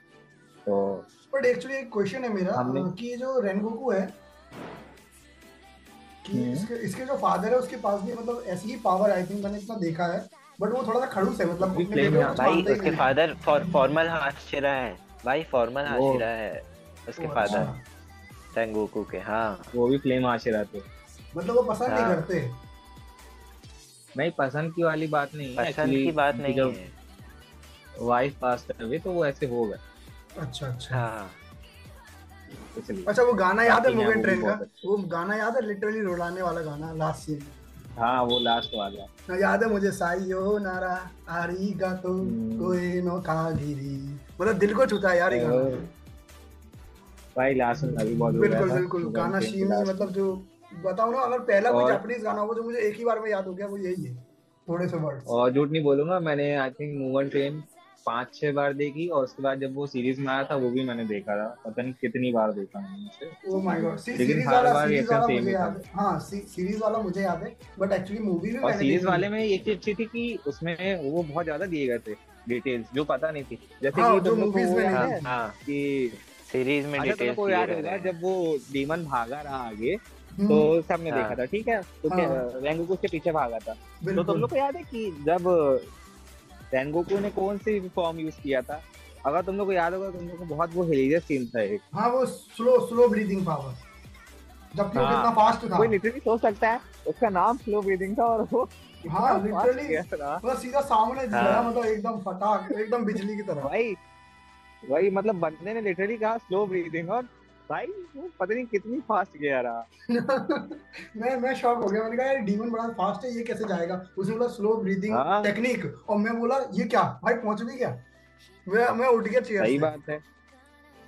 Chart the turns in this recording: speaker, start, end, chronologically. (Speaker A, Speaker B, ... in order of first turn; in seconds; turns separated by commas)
Speaker A: 0.7-1.1, Speaker B: 1.3-4.1, Speaker A: 2.6-2.9, Speaker B: 6.2-13.1, Speaker A: 6.3-6.7, Speaker A: 11.7-12.5, Speaker C: 12.3-17.7, Speaker A: 15.9-16.2, Speaker B: 17.2-17.8, Speaker C: 18.5-19.7, Speaker A: 19.7-20.9, Speaker B: 21.3-22.6, Speaker C: 21.9-22.3, Speaker A: 24.2-26.8, Speaker C: 25.6-26.9, Speaker A: 28.0-29.8, Speaker B: 30.4-31.0, Speaker C: 30.9-31.4, Speaker A: 32.8-33.1, Speaker B: 33.1-37.5, Speaker A: 33.6-34.8, Speaker A: 38.0-39.1, Speaker B: 39.3-45.8, Speaker A: 42.2-42.8, Speaker A: 45.3-45.8, Speaker A: 47.4-50.1, Speaker B: 47.9-55.3, Speaker A: 51.7-52.0, Speaker A: 55.3-63.4, Speaker B: 63.5-69.2, Speaker A: 64.2-65.8, Speaker A: 68.6-76.2, Speaker B: 73.9-75.3, Speaker C: 74.9-75.6, Speaker C: 76.4-78.1, Speaker A: 77.0-85.9, Speaker B: 80.4-80.7, Speaker C: 81.1-81.4, Speaker B: 82.1-82.4, Speaker B: 84.0-84.5, Speaker A: 86.7-91.8, Speaker B: 91.9-93.8, Speaker B: 94.7-96.0, Speaker A: 95.0-100.4, Speaker B: 99.1-103.7, Speaker C: 101.3-101.7, Speaker A: 103.6-104.0, Speaker A: 104.9-109.8, Speaker B: 110.1-118.0, Speaker A: 115.1-115.5, Speaker B: 118.7-119.9, Speaker A: 119.6-120.2